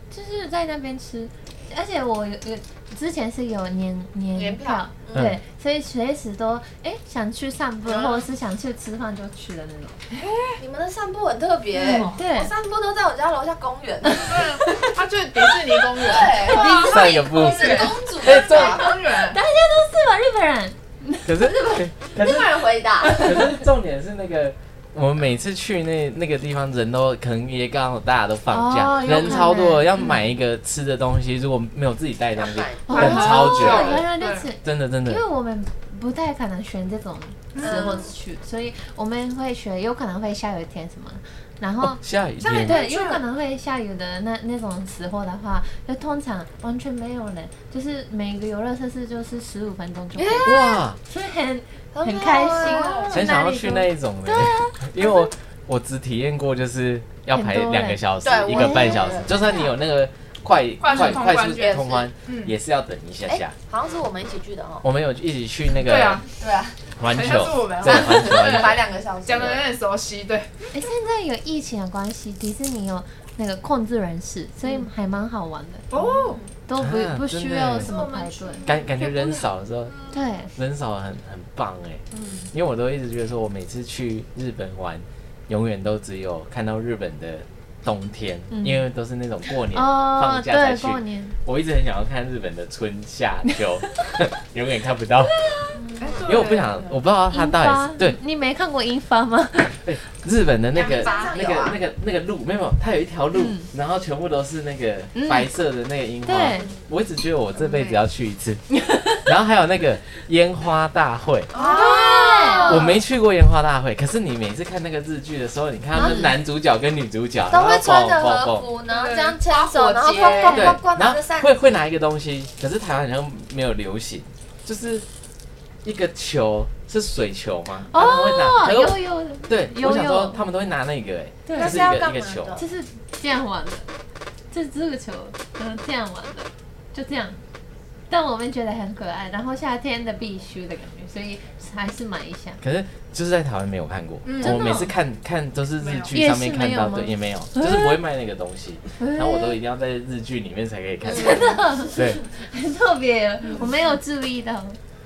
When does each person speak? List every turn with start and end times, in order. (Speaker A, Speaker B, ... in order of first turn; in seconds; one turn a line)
Speaker A: 0.1-10.0
Speaker B: 4.3-5.2
Speaker C: 5.1-5.4
Speaker B: 7.9-8.1
Speaker D: 10.1-10.6
Speaker B: 10.6-14.9
Speaker D: 11.7-12.2
Speaker A: 11.9-12.5
Speaker D: 14.2-19.4
Speaker B: 15.9-18.9
Speaker A: 16.2-17.8
Speaker C: 16.8-18.8
Speaker A: 18.8-21.4
Speaker C: 21.2-22.5
Speaker B: 22.1-23.5
Speaker C: 23.0-34.0
Speaker A: 28.5-29.9
Speaker B: 32.4-33.3
Speaker A: 32.9-42.0
Speaker D: 32.9-34.5
Speaker C: 34.6-35.2
Speaker D: 37.5-38.1
Speaker B: 37.6-38.1
Speaker C: 41.8-42.8
Speaker D: 42.4-43.2
Speaker A: 42.6-55.2
Speaker B: 50.1-50.8
Speaker C: 50.4-51.0
Speaker B: 51.9-53.1
Speaker D: 52.6-53.0
Speaker C: 53.1-63.5
Speaker A: 57.3-59.4
Speaker B: 58.2-59.4
Speaker D: 60.8-62.5
Speaker B: 61.5-62.1
Speaker B: 63.3-64.8
Speaker C: 64.8-66.2
Speaker D: 65.8-66.2
Speaker B: 66.4-66.8
Speaker C: 67.0-68.8
Speaker D: 67.0-70.7
Speaker B: 67.8-69.6
Speaker A: 70.7-76.0
Speaker D: 75.9-76.4
Speaker B: 76.2-76.5
Speaker A: 76.7-78.7
Speaker C: 76.8-77.9
Speaker D: 77.8-79.4
Speaker C: 78.7-80.0
Speaker A: 80.1-80.5
Speaker C: 80.5-95.3
Speaker D: 82.1-82.5
Speaker A: 88.5-88.9
Speaker A: 89.7-91.4
Speaker A: 95.3-95.8
Speaker B: 95.7-96.6
Speaker D: 96.0-96.8
Speaker C: 96.2-98.2
Speaker A: 97.3-99.9
Speaker C: 99.8-108.7
Speaker B: 100.7-101.8
Speaker D: 100.8-101.4
Speaker A: 103.3-103.7
Speaker A: 105.1-105.5
Speaker A: 106.2-106.7
Speaker A: 108.7-109.2
Speaker C: 109.2-111.5
Speaker B: 111.5-112.9
Speaker D: 111.5-112.7
Speaker A: 111.6-112.9
Speaker C: 112.6-118.7
Speaker B: 116.0-116.3
Speaker B: 117.5-121.6
Speaker D: 118.9-120.7
Speaker C: 120.5-125.0
Speaker C: 125.8-132.6
Speaker A: 127.9-130.4
Speaker A: 131.4-131.8
Speaker B: 131.5-132.7
Speaker A: 132.6-133.9
Speaker A: 134.5-137.4
Speaker A: 138.1-142.6
Speaker C: 142.6-152.2
Speaker D: 144.2-144.7
Speaker A: 144.4-144.9
Speaker D: 145.8-146.1
Speaker A: 146.1-148.0
Speaker A: 149.0-149.6
Speaker B: 151.1-151.3
Speaker A: 151.1-154.8